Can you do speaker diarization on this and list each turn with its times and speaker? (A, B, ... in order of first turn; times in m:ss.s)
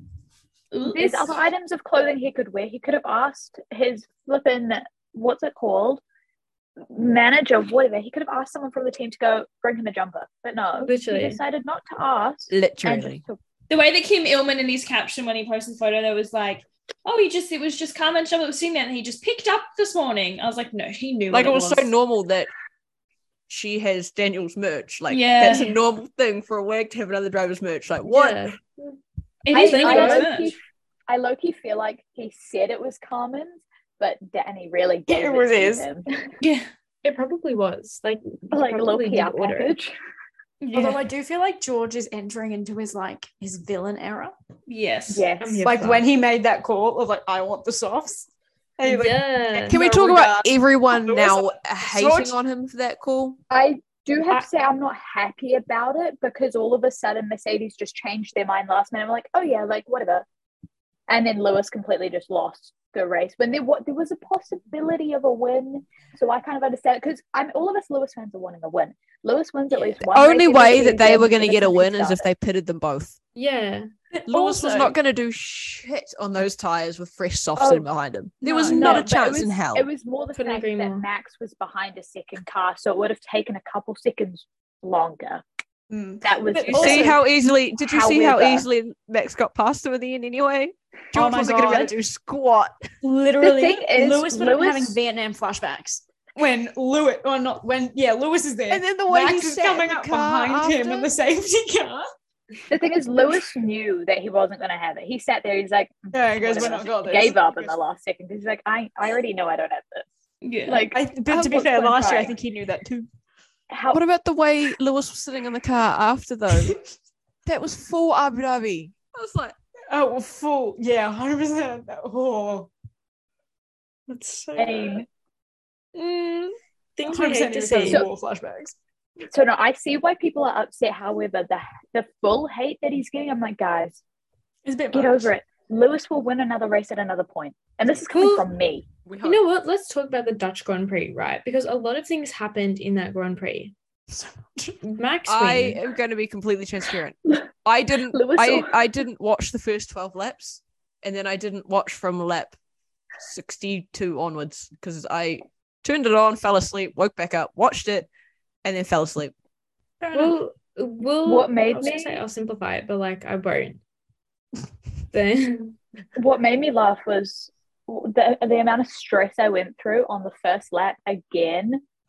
0:00.7-0:01.4 A
0:00.9-0:06.0 B
0:06.9-0:13.4 B
0:10.8-0:11.4 C
0:12.5-0:13.2 D
0:13.7-0:21.9 A
0:21.3-0:22.5 D
0:23.5-0:28.5 D
0:25.1-0:25.8 A
0:28.1-0:29.0 C
0:29.4-0:30.5 A
0:29.5-0:30.4 C
0:29.5-0:36.3 B
0:35.1-0:35.9 E
0:36.4-0:36.7 A
0:37.0-0:39.7 C
0:38.5-0:39.9 B
0:40.6-0:41.0 A
0:40.7-0:44.3 E
0:44.7-0:45.3 A
0:45.1-0:45.6 B
0:45.4-0:46.1 C
0:45.6-0:52.3 E
0:48.8-0:49.8 C
0:49.7-0:53.4 D
0:53.5-1:00.2 B
1:01.1-1:12.3 B
1:10.0-1:13.2 D
1:13.4-1:13.9 C
1:14.3-1:14.9 E
1:14.3-1:19.9 D
1:17.6-1:17.9 B
1:18.4-1:19.0 E
1:18.4-1:19.1 C
1:18.7-1:25.4 B
1:20.4-1:21.1 C
1:25.9-1:27.2 E
1:26.2-1:27.2 B
1:26.7-1:32.8 D
1:27.8-1:28.7 B
1:31.1-1:32.0 E
1:33.0-1:42.0 E
1:33.4-1:35.0 B
1:38.7-1:41.1 D
1:42.7-1:50.1 B
1:46.1-1:47.7 E
1:50.4-1:50.9 A
1:50.7-1:52.4 B
1:50.9-1:53.1 E
1:53.7-1:54.0 B
1:53.9-1:56.8 D
1:57.4-1:59.6 D
1:59.9-2:02.7 E
2:04.1-2:05.0 C
2:04.6-2:05.1 B
2:06.0-2:08.1 C
2:07.1-2:08.8 E
2:09.3-2:14.0 B
2:14.6-2:15.3 E
2:14.9-2:18.9 B
2:18.1-2:18.5 C
2:19.0-2:19.4 D
2:19.2-2:23.7 C
2:24.1-2:24.8 E
2:24.8-2:25.8 C
2:25.3-2:32.6 D
2:28.1-2:28.7 B
2:33.2-2:38.1 D
2:38.6-2:39.3 D
2:40.0-2:40.4 E
2:40.1-2:43.8 C
2:41.2-2:42.2 B
2:45.1-2:45.8 C
2:46.2-2:51.8 B